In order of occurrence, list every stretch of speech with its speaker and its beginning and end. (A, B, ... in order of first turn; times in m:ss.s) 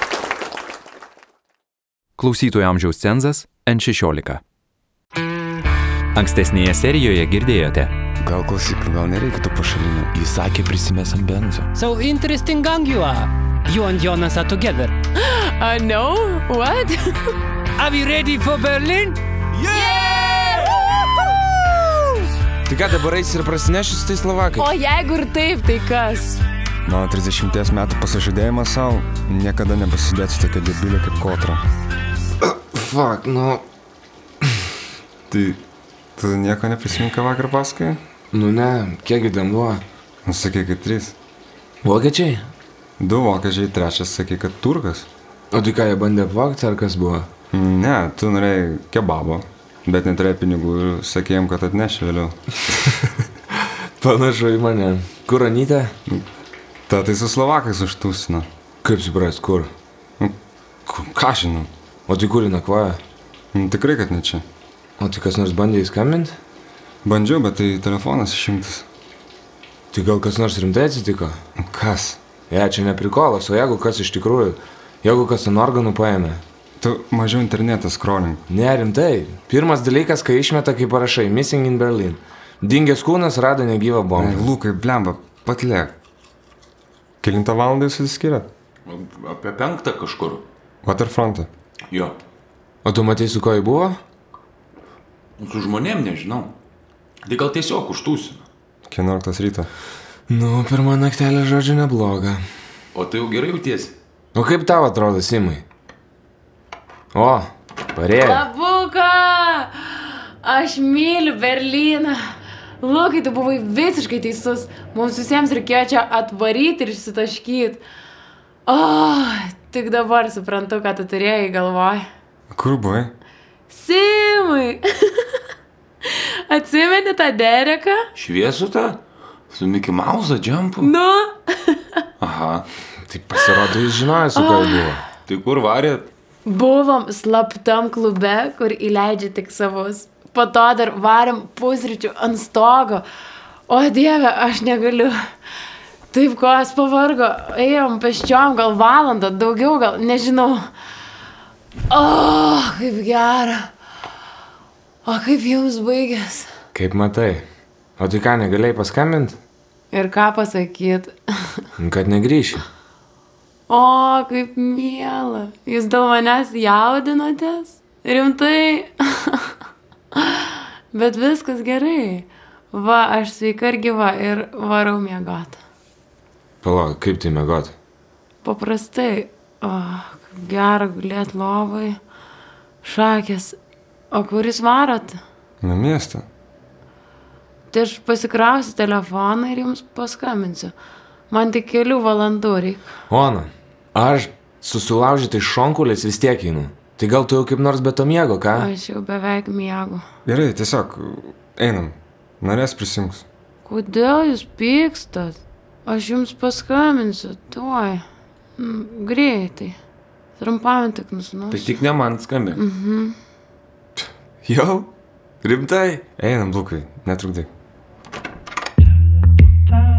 0:02.2-0:04.4 A
0:06.1-0:07.9 A
0:08.2-0:10.1 B
0:10.3-0:11.5 C
0:11.8-0:14.9 D
0:15.2-0:17.4 E
0:17.8-0:19.2 D
0:19.7-0:20.8 E
0:22.7-0:24.7 F
0:24.6-0:26.4 E
0:26.9-0:31.6 B
0:32.4-0:33.6 F
0:35.3-0:35.6 B
0:36.2-0:38.0 B
0:38.3-0:39.8 F
0:40.3-0:41.2 B
0:41.8-0:42.5 F
0:43.0-0:45.1 B
0:45.5-0:47.3 F
0:47.5-0:52.4 B
0:54.0-0:55.9 F
0:56.9-0:58.5 B
0:58.8-0:59.7 F
1:00.9-1:01.7 B
1:02.1-1:03.0 F
1:03.5-1:04.4 B
1:05.0-1:06.3 F
1:07.0-1:08.9 B
1:09.9-1:11.4 F
1:11.6-1:12.2 B
1:12.5-1:16.4 F
1:16.8-1:18.4 B
1:18.5-1:24.5 F
1:24.2-1:25.9 B
1:27.2-1:28.5 B
1:28.9-1:30.4 C
1:30.8-1:31.5 B
1:32.8-1:34.0 F
1:35.4-1:36.5 C
1:37.2-1:38.4 C
1:38.9-1:39.7 B
1:40.3-1:42.4 F
1:43.0-1:43.9 C
1:44.4-1:45.6 F
1:47.2-1:48.4 F
1:48.1-1:52.2 E
1:52.8-1:57.8 E
1:58.7-2:02.1 E
2:02.5-2:03.1 B
2:03.7-2:05.4 E
2:06.1-2:08.0 E
2:08.2-2:09.0 C
2:09.5-2:10.9 C
2:10.8-2:12.0 E
2:12.2-2:12.6 C
2:13.1-2:15.0 F
2:14.3-2:15.0 E
2:15.3-2:16.1 C
2:16.5-2:23.0 E
2:23.7-2:25.2 E
2:26.1-2:30.7 E
2:31.9-2:33.7 E
2:35.0-2:36.5 E
2:36.7-2:37.4 F
2:38.0-2:39.4 F
2:39.9-2:41.6 E
2:41.8-2:42.6 F
2:43.7-2:49.5 E
2:50.2-2:55.6 E
2:56.6-2:57.7 F
2:58.4-3:02.0 E
3:02.8-3:03.6 E
3:04.1-3:05.2 E
3:05.6-3:06.3 B
3:07.7-3:10.7 E
3:11.3-3:12.9 E
3:13.1-3:18.7 F
3:18.6-3:20.0 E
3:20.2-3:23.2 B
3:23.6-3:28.0 E
3:28.6-3:29.8 E
3:30.4-3:31.8 E
3:31.5-3:32.6 C
3:32.5-3:33.2 E
3:34.4-3:34.9 F
3:35.4-3:36.0 F
3:36.2-3:37.5 B